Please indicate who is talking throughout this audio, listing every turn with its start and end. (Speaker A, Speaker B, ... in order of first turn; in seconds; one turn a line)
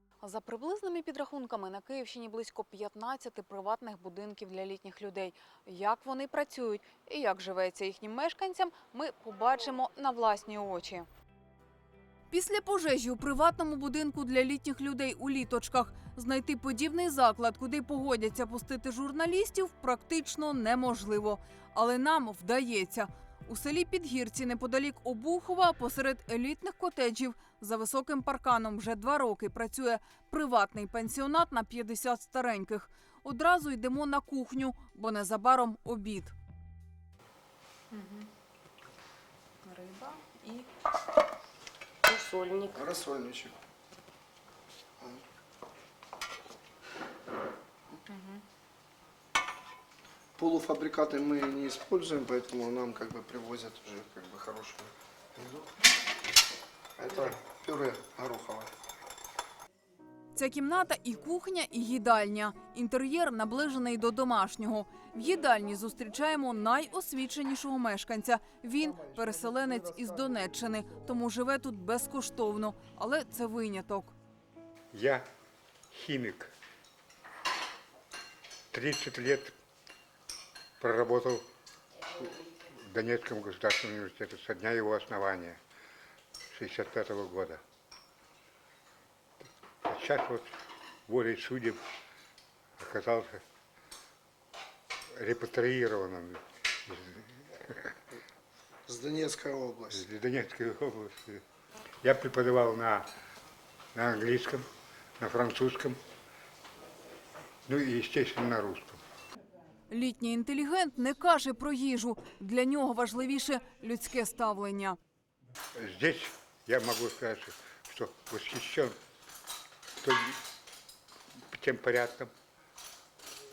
Speaker A: 0.2-11.1
Speaker A: 12.3-36.3
Speaker B: 42.8-43.5
Speaker B: 50.4-55.6
Speaker B: 57.0-58.7
Speaker A: 60.4-74.1
Speaker C: 74.9-75.2
Speaker C: 75.9-76.5
Speaker C: 78.7-79.5
Speaker C: 80.8-81.5
Speaker C: 82.8-85.6
Speaker C: 86.5-87.6
Speaker C: 89.8-90.5
Speaker C: 91.1-91.8
Speaker C: 92.8-93.4
Speaker C: 95.2-98.0
Speaker B: 98.9-100.0
Speaker C: 99.9-101.4
Speaker C: 102.0-103.1
Speaker C: 104.0-104.7
Speaker C: 105.2-106.0
Speaker C: 107.7-109.0
Speaker A: 109.9-115.0
Speaker C: 115.8-119.0
Speaker C: 120.0-120.4
Speaker C: 121.5-122.3